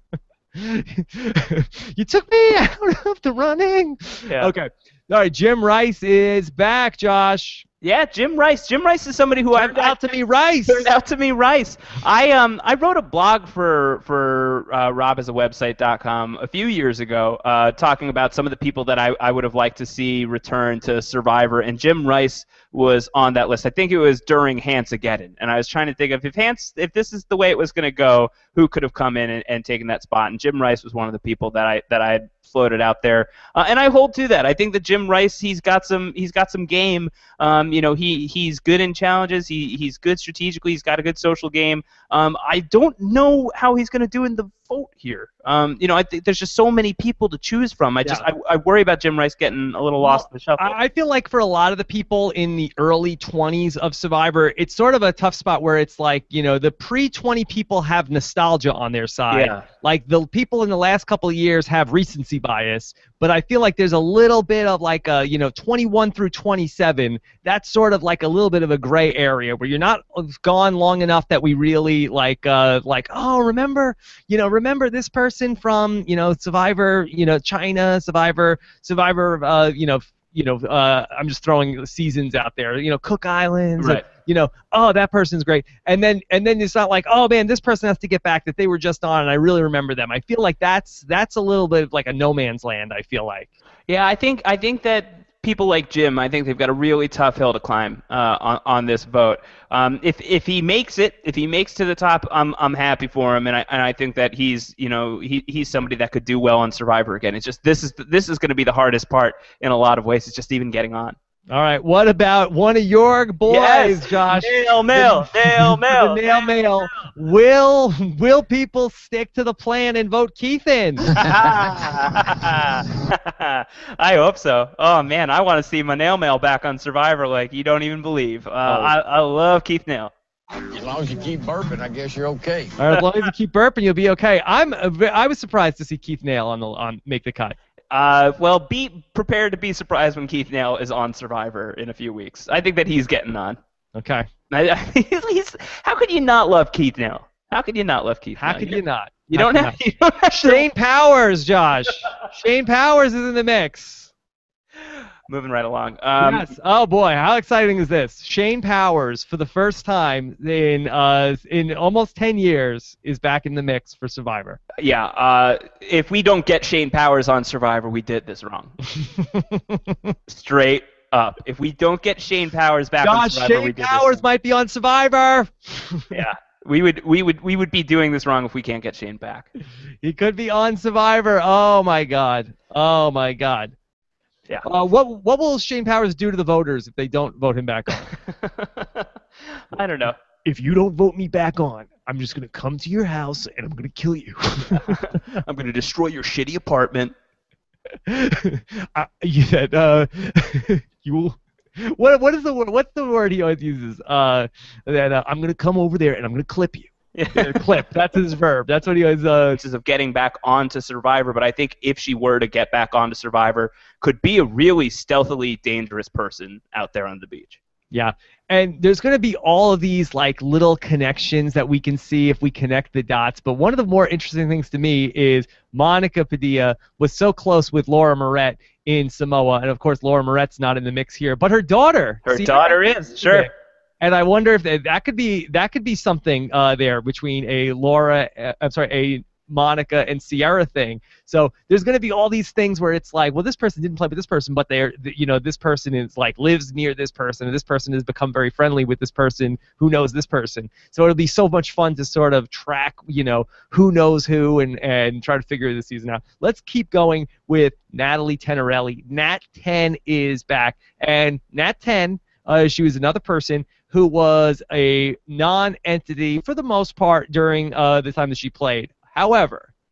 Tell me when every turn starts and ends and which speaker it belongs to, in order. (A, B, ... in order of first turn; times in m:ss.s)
0:00.6-0:07.6 A
0:07.8-0:10.1 B
0:09.6-0:10.9 A
0:10.6-0:50.8 B
0:50.0-1:33.5 A
0:59.3-0:59.7 B
1:23.8-1:24.0 B
1:33.9-1:51.2 B
1:51.5-2:01.1 A
1:53.4-1:57.1 B
2:01.1-2:10.1 B
2:08.6-2:08.9 A
2:10.5-2:12.7 C
2:12.8-2:17.6 A
2:17.9-2:23.6 B
2:23.9-2:24.3 A
2:24.5-2:30.6 B
2:28.4-2:29.7 A
2:30.3-2:34.1 A
2:35.3-2:36.5 B
2:36.2-2:44.6 A
2:44.8-2:48.8 B
2:49.0-2:50.1 A
2:50.3-2:54.2 B
2:53.0-2:56.1 A
2:56.1-2:59.5 B
3:00.0-3:03.7 A
3:04.6-3:08.0 A
3:08.3-3:09.1 B
3:09.7-3:10.2 B
3:10.4-3:14.9 A
3:14.8-3:17.1 B
3:18.1-3:29.6 A
3:27.1-3:27.9 B
3:29.6-3:37.6 B
3:37.9-4:29.7 A
3:52.3-3:53.5 B